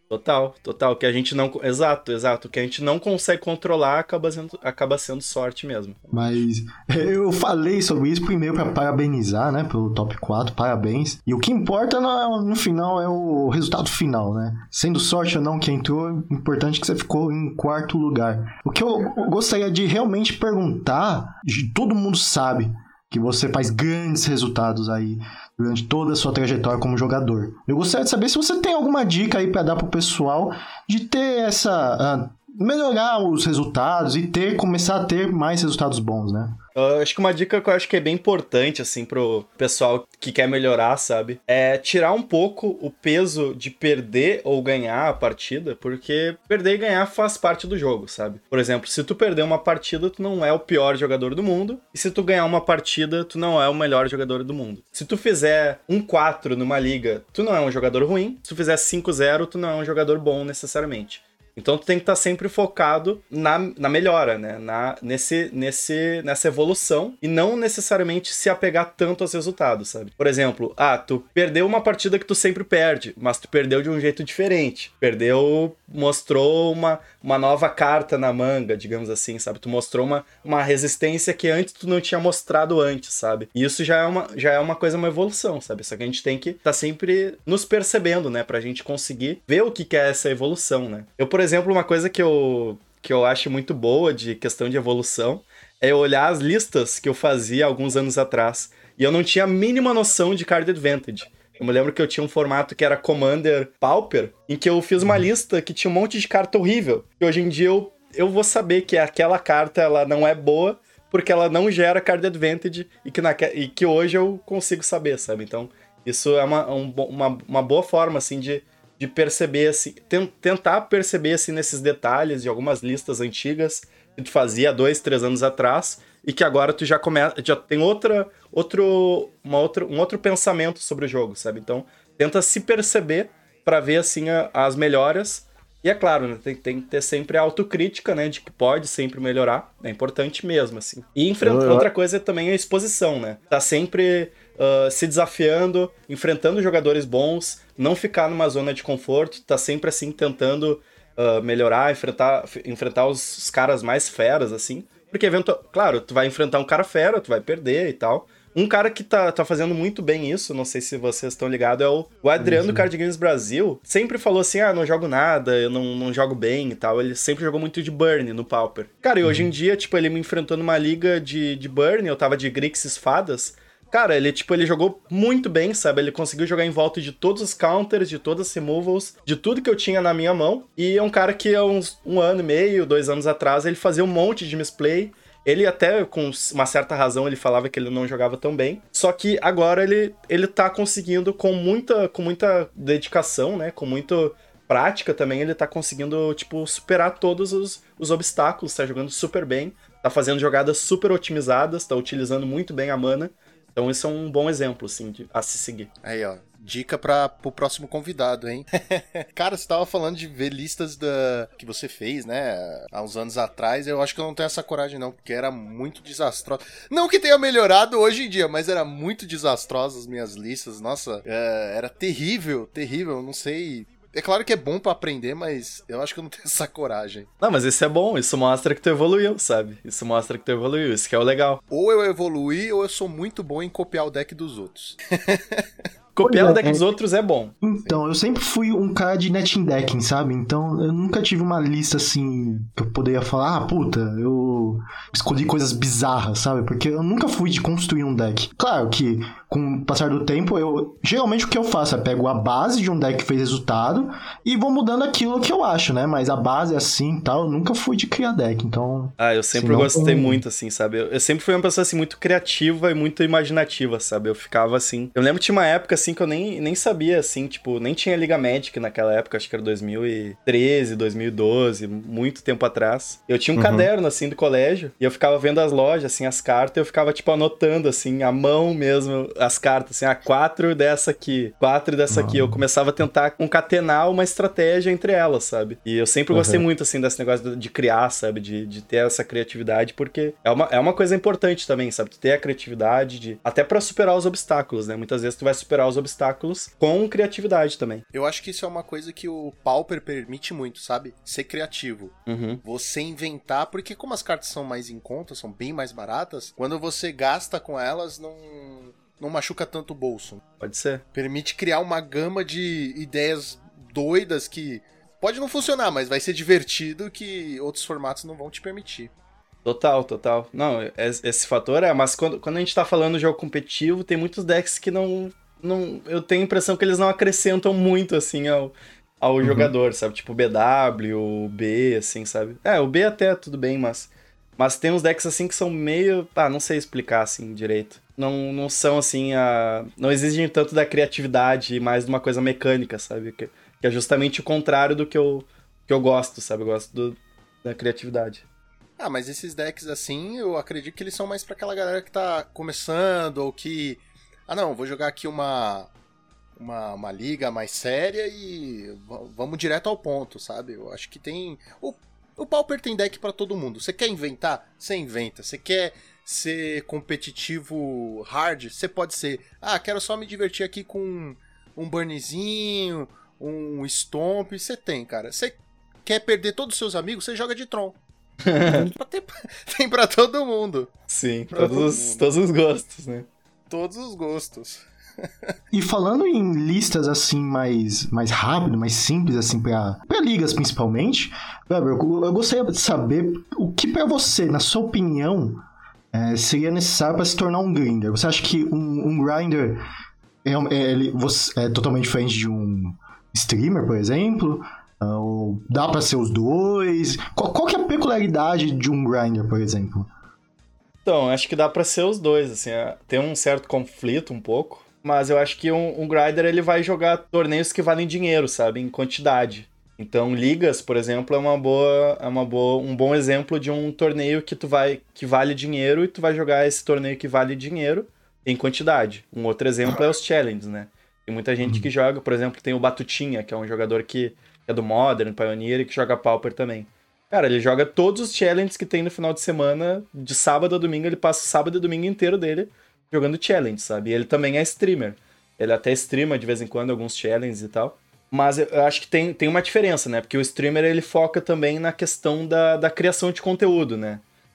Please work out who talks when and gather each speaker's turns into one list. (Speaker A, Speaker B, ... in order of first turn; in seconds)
Speaker A: 0.1-6.0, 36.8-205.9, 227.4-231.6, 236.2-237.5, 259.2-298.1, 302.3-302.6, 310.6-311.0, 319.6-348.4, 378.4-378.9, 381.1-383.3, 411.1-454.2
Speaker B: 6.1-6.4, 206.0-227.3, 231.7-235.7, 298.1-310.4, 311.1-319.1, 349.0-355.9, 356.6-378.0, 378.6-380.9, 381.5-382.4, 383.7-385.6
Speaker C: 6.1-36.6, 162.4-162.9, 236.2-236.8, 237.6-260.4, 282.1-282.6, 286.3-286.6, 329.4-329.7, 385.7-399.8, 400.4-410.1